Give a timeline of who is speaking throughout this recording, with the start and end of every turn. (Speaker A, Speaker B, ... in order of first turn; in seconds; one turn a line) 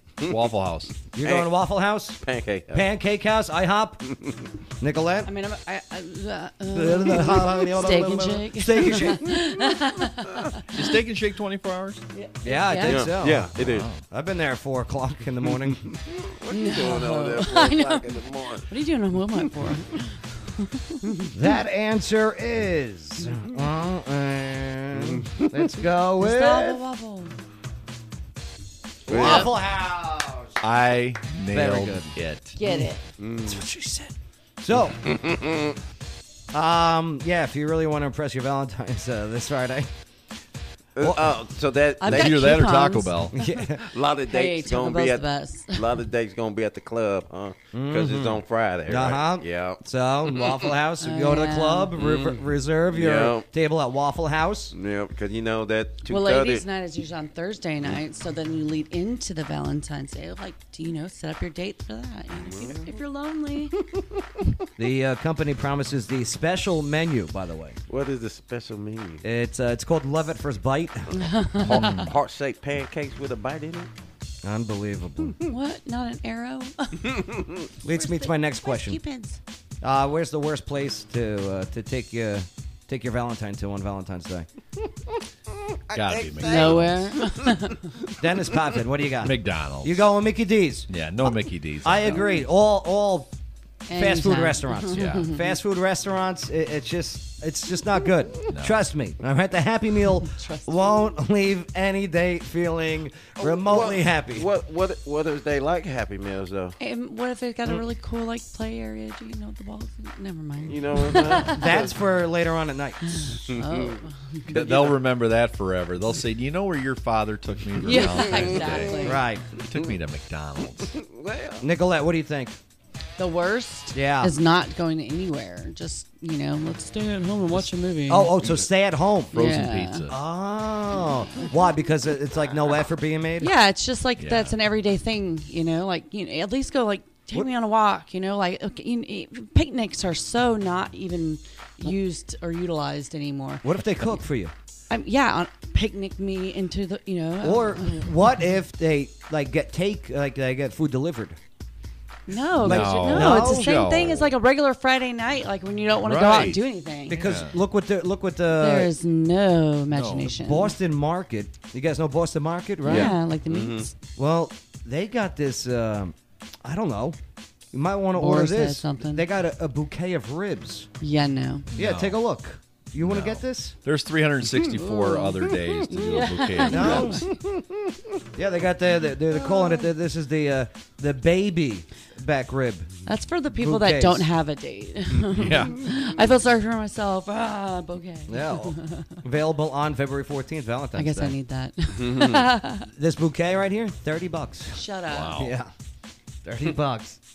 Speaker A: 0.3-1.0
Speaker B: 1.1-4.0
Speaker C: 1.2-1.5
Speaker C: 2.2-2.9
Speaker C: 4.1-4.4
Speaker B: 4.8-5.3
Speaker D: 5.2-10.7
Speaker B: 6.7-9.4
Speaker A: 10.7-12.0
Speaker D: 12.1-13.1
Speaker B: 12.4-15.8
Speaker C: 12.9-13.9
Speaker A: 13.6-14.0
Speaker C: 15.9-18.7
Speaker D: 16.5-21.3
Speaker B: 21.3-26.8
Speaker C: 25.0-25.5
Speaker D: 26.2-27.4
Speaker B: 29.1-30.6
Speaker C: 29.1-29.5
Speaker D: 29.1-29.5
Speaker A: 30.6-32.6
Speaker B: 31.5-32.1
Speaker D: 32.6-33.1
Speaker C: 33.2-33.6
Speaker B: 33.4-35.0
Speaker C: 35.0-35.8
Speaker B: 36.5-39.9
Speaker C: 41.0-42.6
Speaker B: 41.0-41.4
Speaker D: 42.0-43.5
Speaker A: 42.0-43.4
Speaker B: 43.3-43.8
Speaker C: 43.8-50.6
Speaker D: 44.3-45.9
Speaker B: 47.7-54.8
Speaker D: 51.0-51.9
Speaker C: 52.0-52.4
Speaker C: 52.9-53.5
Speaker C: 54.7-56.6
Speaker D: 56.1-63.8
Speaker C: 62.4-62.9
Speaker B: 64.8-67.8
Speaker C: 67.9-69.2
Speaker B: 69.2-71.3
Speaker D: 71.2-72.0
Speaker A: 71.6-72.1
Speaker C: 71.7-73.9
Speaker B: 74.4-75.4
Speaker D: 75.5-77.2
Speaker B: 77.8-79.0
Speaker D: 77.9-79.4
Speaker B: 79.8-84.5
Speaker C: 85.7-87.6
Speaker A: 85.9-87.0
Speaker D: 86.4-87.9
Speaker B: 88.2-90.9
Speaker A: 89.2-90.0
Speaker A: 90.9-92.2
Speaker B: 91.8-93.3
Speaker D: 93.9-95.4
Speaker B: 93.9-104.5
Speaker A: 94.9-95.3
Speaker A: 98.5-98.8
Speaker D: 100.2-101.1
Speaker C: 103.4-106.8
Speaker D: 106.8-111.6
Speaker C: 110.7-111.9
Speaker B: 111.5-113.5
Speaker D: 113.1-114.6
Speaker C: 113.5-114.0
Speaker A: 114.5-119.0
Speaker C: 114.5-115.0
Speaker D: 117.8-119.2
Speaker B: 119.0-119.5
Speaker A: 119.6-121.0
Speaker C: 120.9-121.6
Speaker B: 121.6-122.6
Speaker D: 123.2-128.4
Speaker B: 123.9-124.3
Speaker B: 128.1-129.4
Speaker D: 129.3-130.1
Speaker A: 129.3-130.2
Speaker B: 130.1-133.5
Speaker D: 133.4-144.2
Speaker A: 134.2-134.6
Speaker B: 143.6-144.5
Speaker D: 144.9-148.3
Speaker B: 147.4-151.4
Speaker D: 152.3-157.3
Speaker B: 152.6-153.8
Speaker A: 152.6-154.3
Speaker A: 156.0-157.6
Speaker B: 157.1-158.9
Speaker D: 158.5-160.8
Speaker A: 159.9-160.3
Speaker B: 160.3-163.2
Speaker D: 162.8-163.9
Speaker C: 163.0-163.9
Speaker B: 164.2-167.2
Speaker B: 167.7-170.9
Speaker D: 168.2-169.3
Speaker D: 171.0-171.7
Speaker A: 171.7-172.2
Speaker B: 171.8-173.8
Speaker A: 173.0-177.2
Speaker D: 174.8-177.2
Speaker B: 176.7-177.3
Speaker B: 178.4-182.9
Speaker D: 183.1-189.2
Speaker B: 183.6-184.3
Speaker A: 185.4-185.8
Speaker B: 188.3-191.4
Speaker D: 190.9-192.9
Speaker C: 192.1-192.4
Speaker B: 192.9-195.7
Speaker D: 194.7-195.4
Speaker A: 195.1-195.5
Speaker B: 196.4-197.2